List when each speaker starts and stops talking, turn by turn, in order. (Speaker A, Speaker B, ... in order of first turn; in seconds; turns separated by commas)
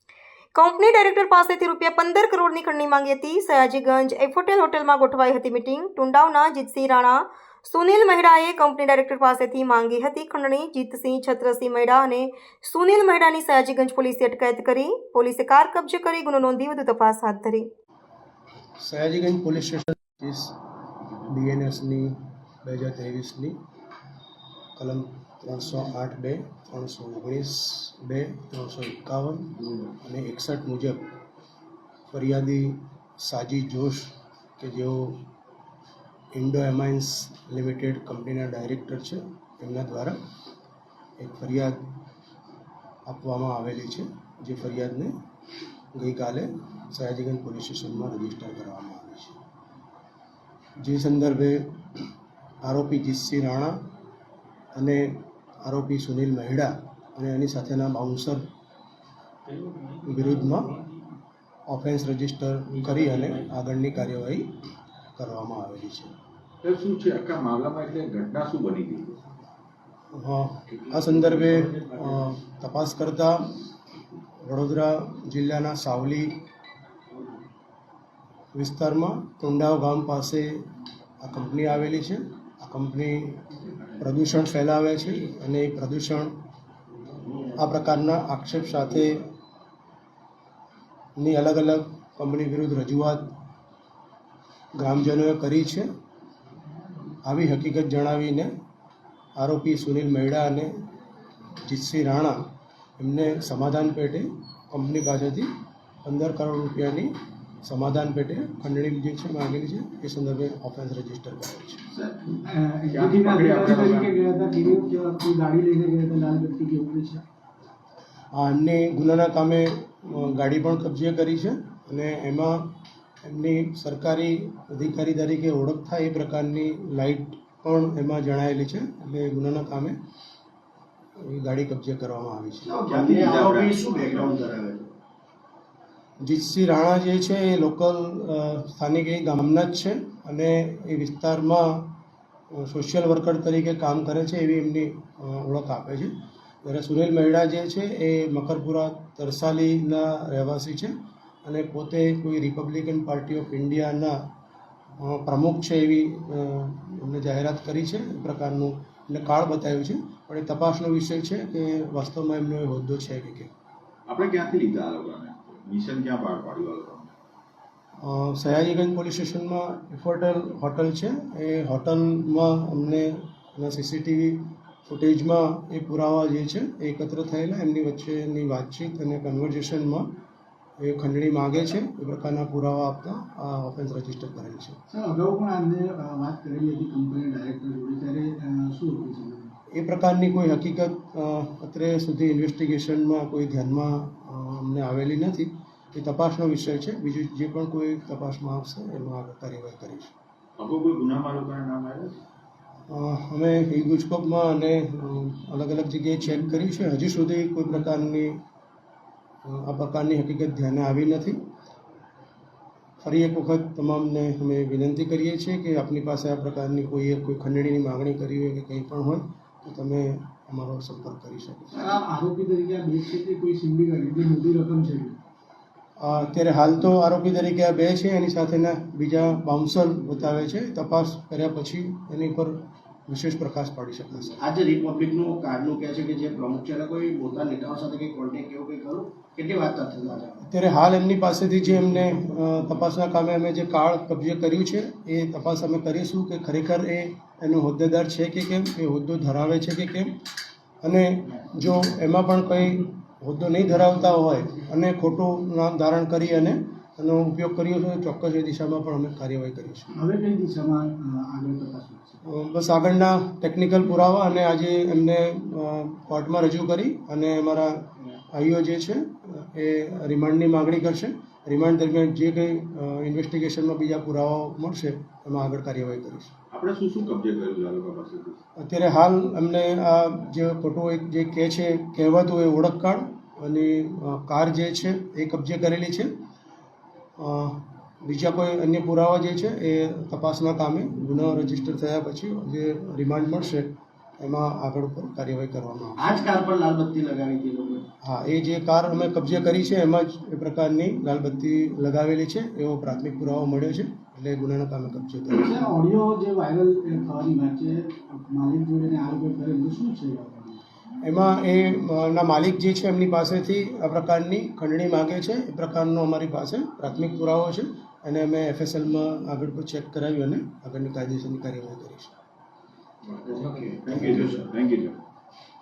Speaker A: 0.6-17.7, Speaker B: 18.8-20.5, Speaker B: 21.2-22.1, Speaker B: 22.6-23.6, Speaker B: 24.8-31.1, Speaker B: 32.1-35.2, Speaker B: 36.4-40.2, Speaker B: 41.2-41.8, Speaker B: 43.1-45.1, Speaker B: 45.9-49.4, Speaker B: 50.8-51.8, Speaker B: 52.6-53.8, Speaker B: 54.8-58.5, Speaker B: 60.0-60.8, Speaker B: 61.7-64.5, Speaker B: 65.2-66.2, Speaker C: 66.6-69.2, Speaker B: 70.1-73.5, Speaker B: 74.4-76.4, Speaker B: 78.5-80.6, Speaker B: 81.2-86.3, Speaker B: 87.5-89.3, Speaker B: 91.2-93.3, Speaker B: 94.8-95.9, Speaker B: 97.2-98.5, Speaker B: 99.4-100.7, Speaker B: 101.6-102.4, Speaker B: 103.0-105.5, Speaker B: 106.0-107.1, Speaker B: 107.6-111.8, Speaker D: 111.9-117.2, Speaker C: 112.9-114.2, Speaker B: 118.3-130.0, Speaker B: 131.2-132.8, Speaker E: 132.7-134.9, Speaker C: 132.9-134.4, Speaker B: 136.2-141.9, Speaker B: 142.5-146.1, Speaker B: 146.7-150.9, Speaker B: 151.4-154.2, Speaker B: 155.0-163.5, Speaker C: 164.1-167.1, Speaker B: 168.0-180.1, Speaker B: 180.8-184.8, Speaker E: 184.9-186.5, Speaker D: 185.0-189.5, Speaker B: 189.7-200.1, Speaker C: 200.6-202.2, Speaker B: 202.9-208.4, Speaker B: 209.4-211.4, Speaker B: 213.0-222.0, Speaker D: 221.8-225.2, Speaker B: 226.0-234.4, Speaker E: 234.4-240.4, Speaker B: 240.4-250.1, Speaker B: 250.8-259.9, Speaker D: 259.9-262.2, Speaker B: 262.2-276.3, Speaker C: 276.5-278.4, Speaker B: 278.6-286.1, Speaker B: 287.2-296.1, Speaker E: 296.0-297.9, Speaker B: 298.0-305.8, Speaker D: 305.4-310.6, Speaker B: 311.0-322.2, Speaker C: 323.0-325.0, Speaker E: 323.3-324.4